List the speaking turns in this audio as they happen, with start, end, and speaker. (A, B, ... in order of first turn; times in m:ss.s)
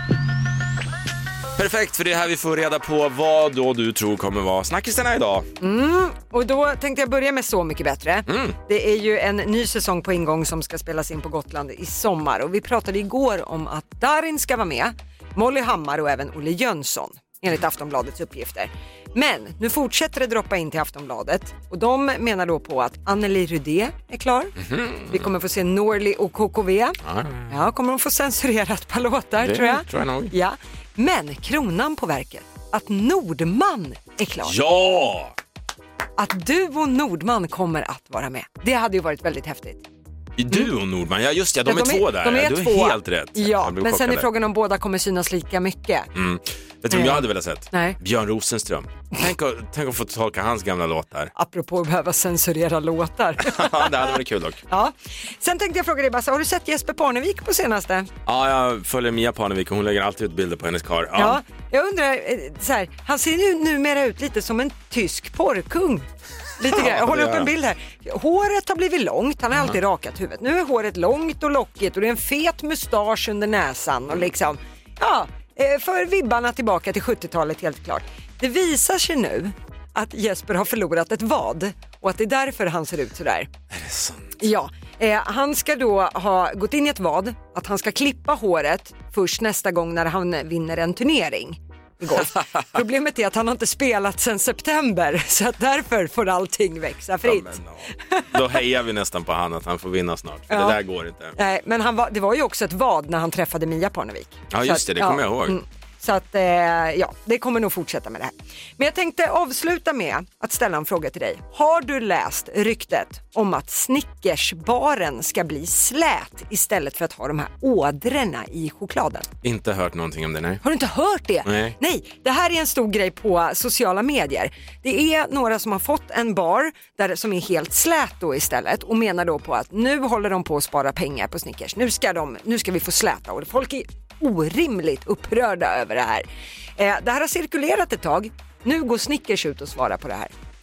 0:01.6-0:05.5 A
0:05.6-0:24.6 B
0:08.3-0:08.6 A
0:24.6-0:25.3 A
0:25.1-0:34.6 B
0:27.0-0:27.5 A
0:29.4-0:30.3 A
0:34.4-0:35.3 A
0:36.2-0:39.8 B
0:40.4-0:44.3 A
0:41.6-0:46.1 B
0:46.1-0:51.3 A
0:46.9-0:48.0 B
0:51.3-0:53.9 B
0:53.4-0:54.6 A
0:54.7-0:58.1 B
0:58.2-1:01.4 A
1:01.2-1:06.1 B
1:06.6-1:23.5 B
1:06.7-1:07.5 A
1:23.7-1:24.4 A
1:24.4-1:38.4 B
1:37.2-1:41.3 A
1:40.5-1:40.8 B
1:41.4-1:59.3 B
1:44.5-1:45.6 A
1:59.4-2:00.6 A
2:00.6-2:16.2 B
2:01.4-2:01.7 A
2:16.8-2:20.3 B